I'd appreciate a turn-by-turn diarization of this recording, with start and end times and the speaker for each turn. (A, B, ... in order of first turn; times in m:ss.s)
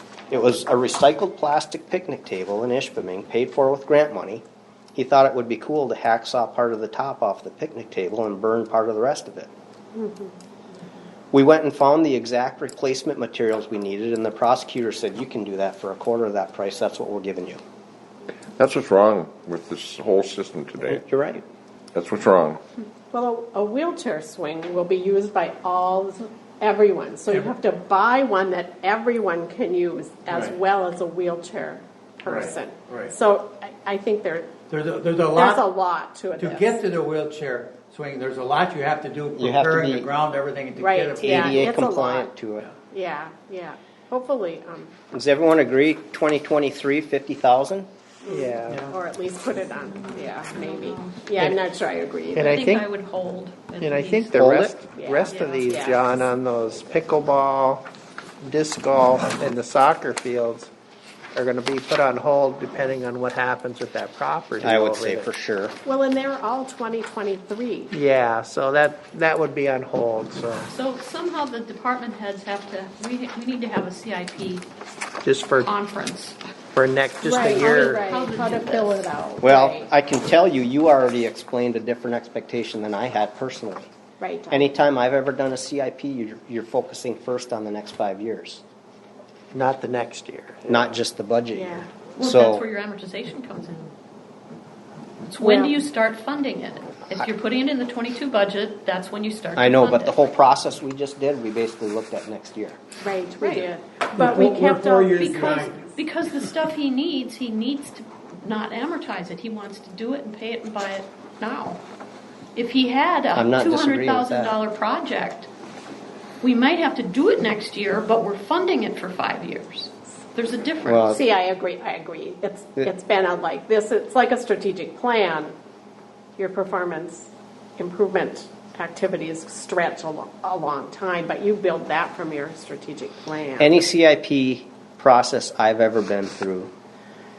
0:00.3-0:04.4 A
0:05.0-0:09.5 A
0:11.3-0:17.6 A
0:18.6-0:21.0 B
0:20.8-0:21.4 A
0:21.9-0:22.6 B
0:23.1-0:34.6 C
0:27.3-0:27.6 D
0:30.3-0:30.6 D
0:32.3-0:33.1 D
0:34.7-0:35.6 D
0:35.3-0:36.8 C
0:36.4-0:41.6 D
0:39.4-0:40.1 A
0:40.8-0:45.0 C
0:41.2-0:42.7 A
0:45.1-0:47.9 A
0:48.2-0:52.5 C
0:48.3-0:48.9 E
0:50.0-0:51.2 F
0:52.3-0:52.9 E
0:52.4-0:54.7 F
0:53.8-0:57.9 E
0:54.4-0:54.7 A
0:54.9-0:56.0 C
0:55.3-0:56.3 F
0:58.4-1:00.7 E
1:01.4-1:05.3 E
1:04.6-1:05.8 A
1:05.8-1:07.9 C
1:07.9-1:10.7 E
1:10.7-1:14.7 F
1:15.2-1:15.7 E
1:15.6-1:16.4 F
1:16.7-1:18.0 E
1:17.2-1:19.9 C
1:17.5-1:19.1 F
1:19.4-1:23.9 A
1:24.2-1:24.7 C
1:24.5-1:28.6 A
1:29.5-1:30.9 E
1:30.7-1:32.6 A
1:31.5-1:31.8 C
1:32.2-1:33.9 F
1:35.2-1:40.3 F
1:35.4-1:35.7 C
1:39.6-1:42.8 A
1:43.0-1:45.7 C
1:43.4-1:43.7 F
1:44.2-1:45.8 D
1:45.2-1:51.8 F
1:52.6-1:55.5 F
1:53.3-1:54.6 A
1:56.4-2:01.2 F
2:00.8-2:01.2 A
2:01.1-2:05.5 C
2:06.4-2:13.7 C
2:13.6-2:16.7 A